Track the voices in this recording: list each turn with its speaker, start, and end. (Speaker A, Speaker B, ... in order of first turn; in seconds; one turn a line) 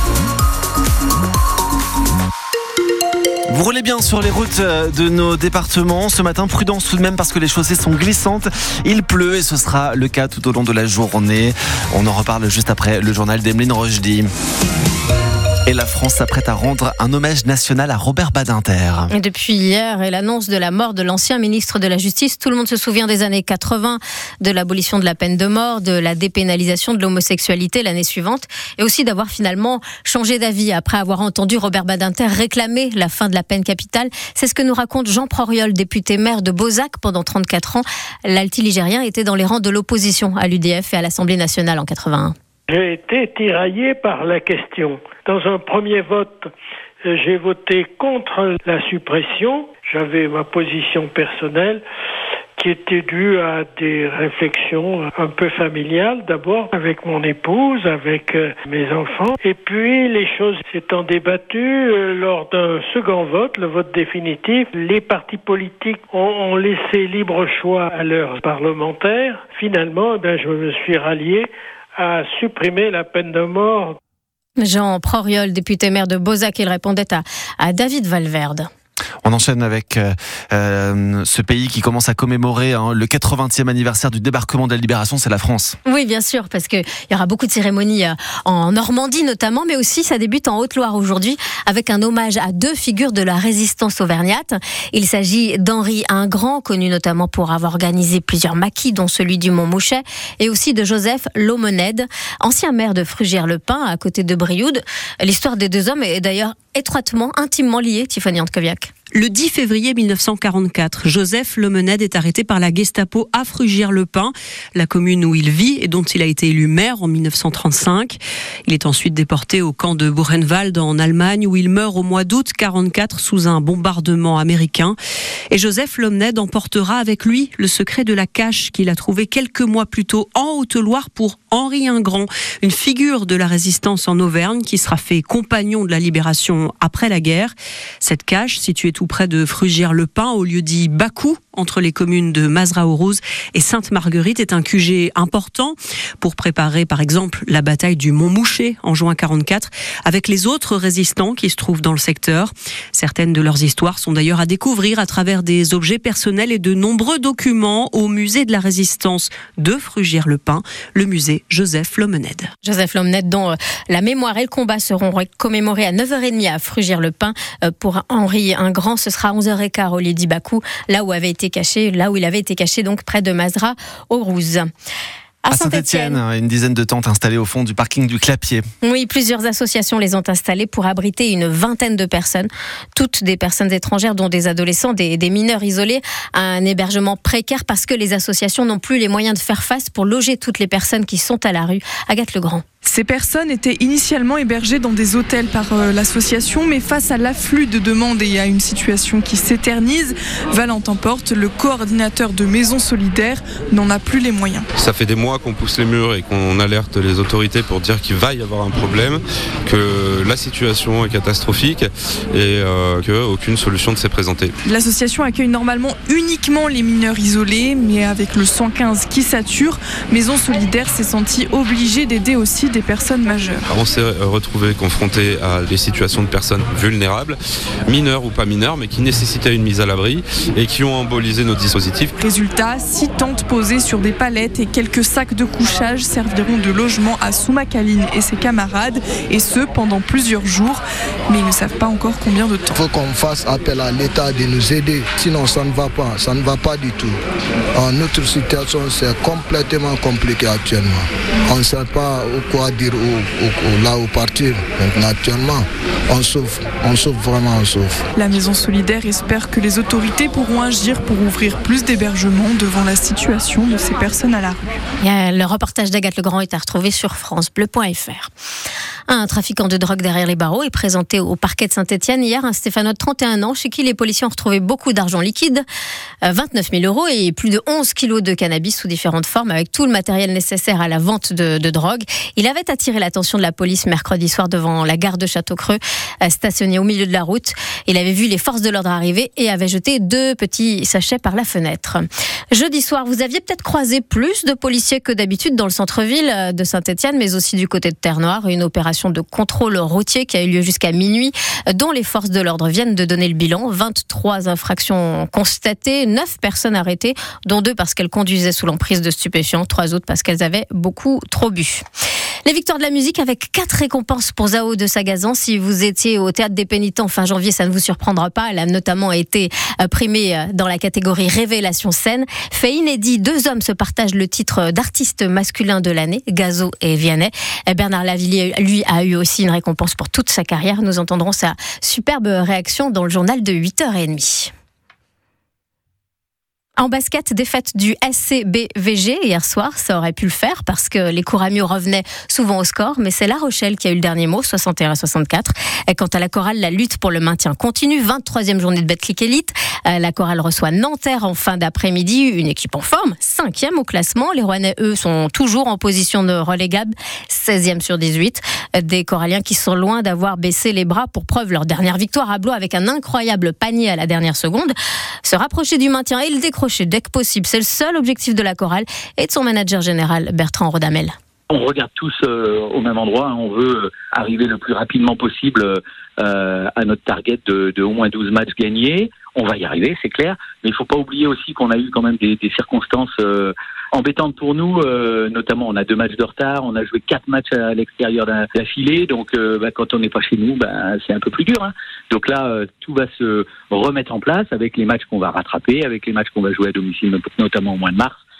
Speaker A: 3.5-14.3
Speaker A: 15.7-19.1
Speaker B: 19.1-42.3
Speaker C: 42.7-46.5
Speaker C: 47.0-51.8
Speaker C: 52.6-74.0
Speaker B: 74.6-78.7
Speaker A: 79.2-85.8
Speaker B: 85.8-108.9
Speaker D: 109.1-125.0
Speaker D: 125.5-162.5
Speaker B: 162.6-174.7
Speaker B: 175.5-176.2
Speaker A: 175.5-178.6
Speaker B: 178.8-192.6
Speaker E: 192.8-204.7
Speaker F: 204.7-214.5
Speaker E: 214.6-223.7
Speaker F: 223.7-232.1
Speaker E: 232.2-242.8
Speaker G: 242.7-247.2
Speaker G: 247.7-258.0
Speaker E: 258.1-264.7
Speaker B: 265.0-268.3
Speaker B: 269.1-275.6
Speaker B: 276.2-311.8
Speaker B: 312.4-334.5
Speaker B: 336.8-364.7
Speaker B: 365.2-371.1
Speaker H: 371.5-398.2